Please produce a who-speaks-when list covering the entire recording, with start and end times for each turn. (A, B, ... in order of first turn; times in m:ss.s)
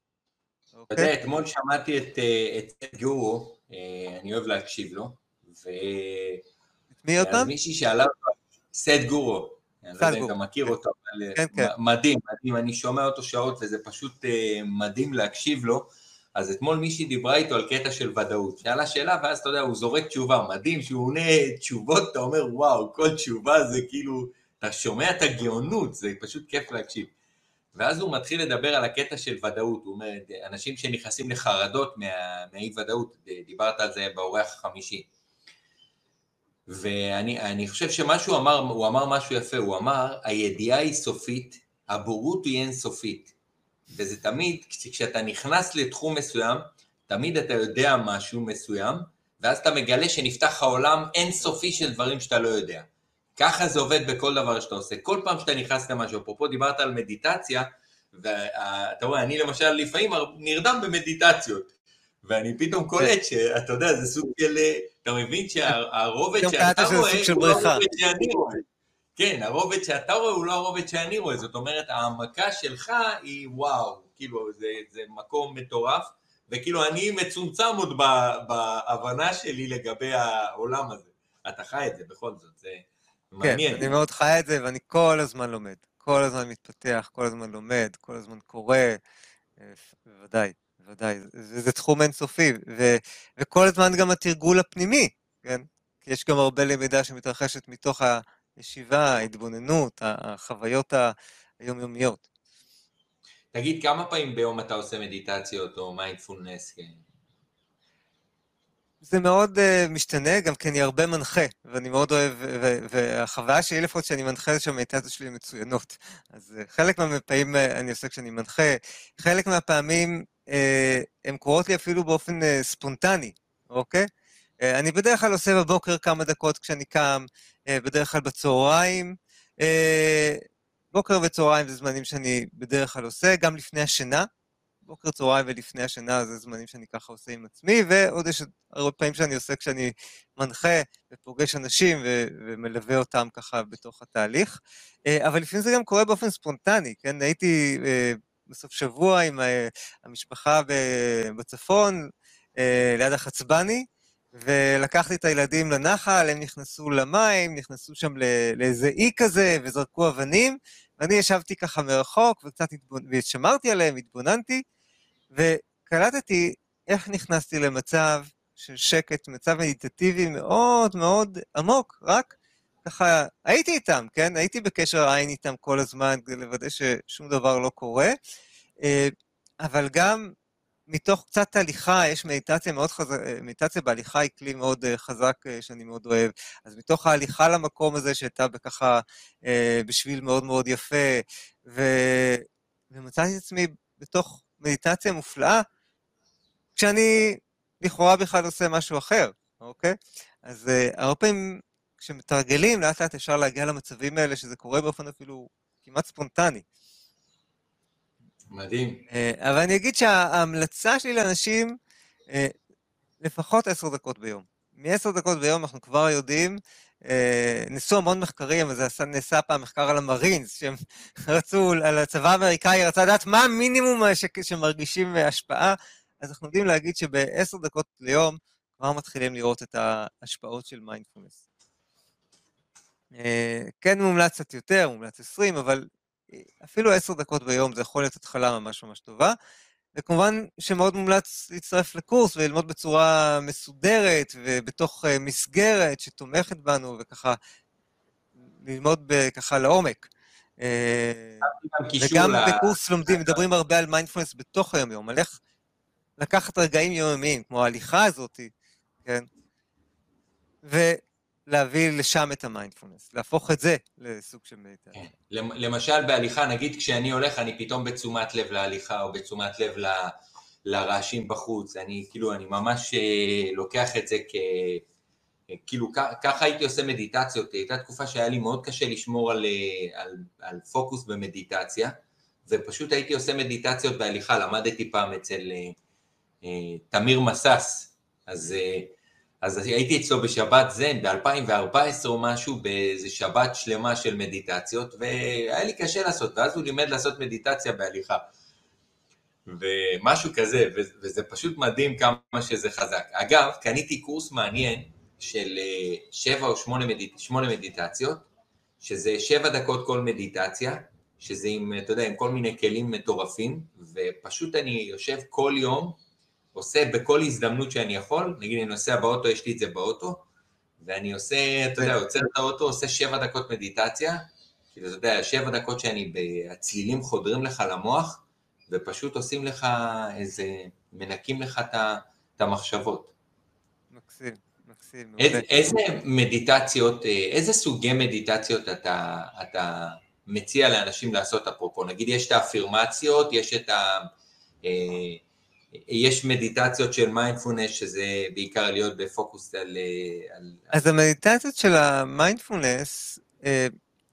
0:00.7-0:01.1 A
0:00.9-0:06.4 B
0:07.0-0:07.5 A
0:07.2-0:27.1 B
0:10.0-0:10.7 A
0:11.3-0:11.7 A
0:27.7-0:35.1 B
0:36.7-0:43.3 B
0:43.9-1:01.7 B
1:02.2-1:08.6 B
1:06.4-1:07.8 A
1:09.2-1:24.0 B
1:23.4-1:29.0 A
1:29.6-1:42.2 A
1:43.5-1:47.0 B
1:49.0-2:04.1 A
2:04.6-2:14.3 A
2:14.8-2:44.6 A
2:45.3-2:58.1 A
2:58.8-3:00.3 A
3:00.9-3:15.6 A
3:16.8-3:26.6 A
3:28.5-3:29.0 B
3:29.1-3:31.8 A
3:33.2-3:51.4 A
3:53.1-3:59.4 A
3:59.9-4:07.4 A
4:08.5-4:11.4 A
4:11.4-4:13.4 B
4:12.0-4:15.4 A
4:16.2-4:18.5 A
4:20.6-4:25.0 A
4:24.9-4:30.1 B
4:30.6-4:34.8 B
4:35.5-4:41.9 B
4:42.5-4:45.8 B
4:46.4-4:58.2 B
4:59.5-5:08.3 B
5:08.8-5:16.0 B
5:16.5-5:20.2 B
5:20.8-5:33.1 B
5:33.9-5:35.7 A
5:35.2-5:44.1 B
5:44.6-5:45.2 B
5:45.9-5:50.7 B
5:50.7-5:53.7 A